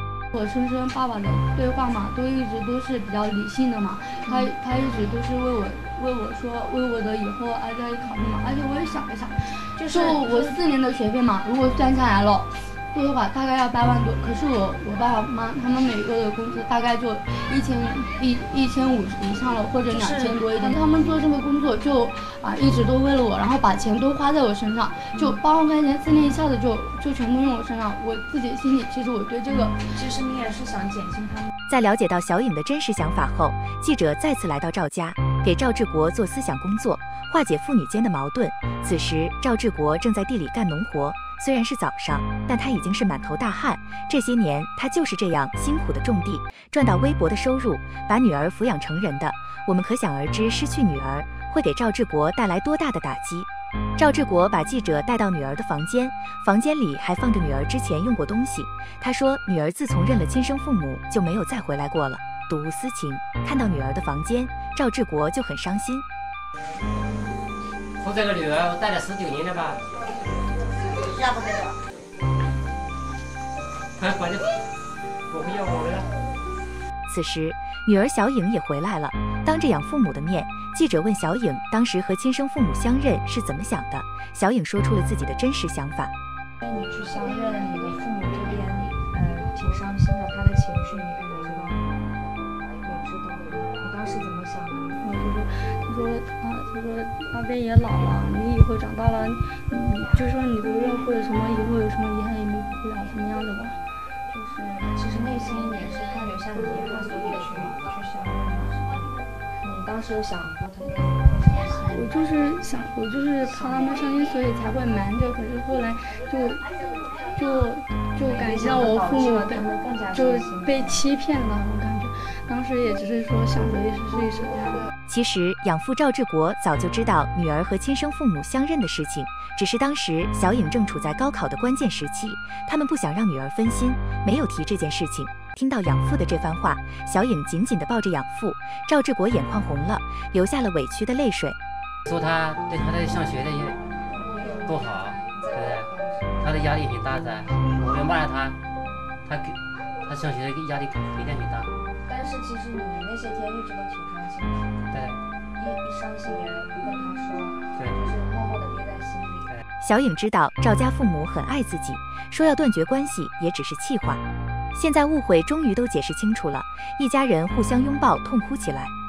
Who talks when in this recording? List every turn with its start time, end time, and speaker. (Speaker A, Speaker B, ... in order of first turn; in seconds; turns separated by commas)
Speaker A: 0.3-29.8, Speaker B: 4.2-4.5, Speaker B: 9.8-10.6, Speaker B: 19.9-20.8, Speaker B: 29.8-31.5, Speaker C: 31.7-66.0, Speaker D: 68.0-69.8, Speaker D: 74.0-74.5, Speaker D: 75.3-76.1, Speaker C: 77.1-86.1, Speaker B: 86.6-92.1, Speaker B: 92.8-94.9, Speaker A: 95.0-103.8, Speaker B: 104.3-109.1, Speaker B: 109.6-112.0, Speaker A: 111.9-116.7, Speaker B: 113.5-113.8, Speaker A: 117.3-124.9, Speaker B: 118.2-121.0, Speaker C: 125.1-141.6, Speaker D: 142.1-143.8, Speaker B: 144.1-146.7, Speaker D: 144.6-145.9, Speaker D: 146.4-148.6, Speaker B: 148.8-149.2, Speaker D: 149.3-151.7, Speaker B: 152.1-154.8, Speaker D: 154.9-155.2, Speaker B: 155.6-159.5, Speaker C: 159.8-164.2, Speaker C: 164.7-168.9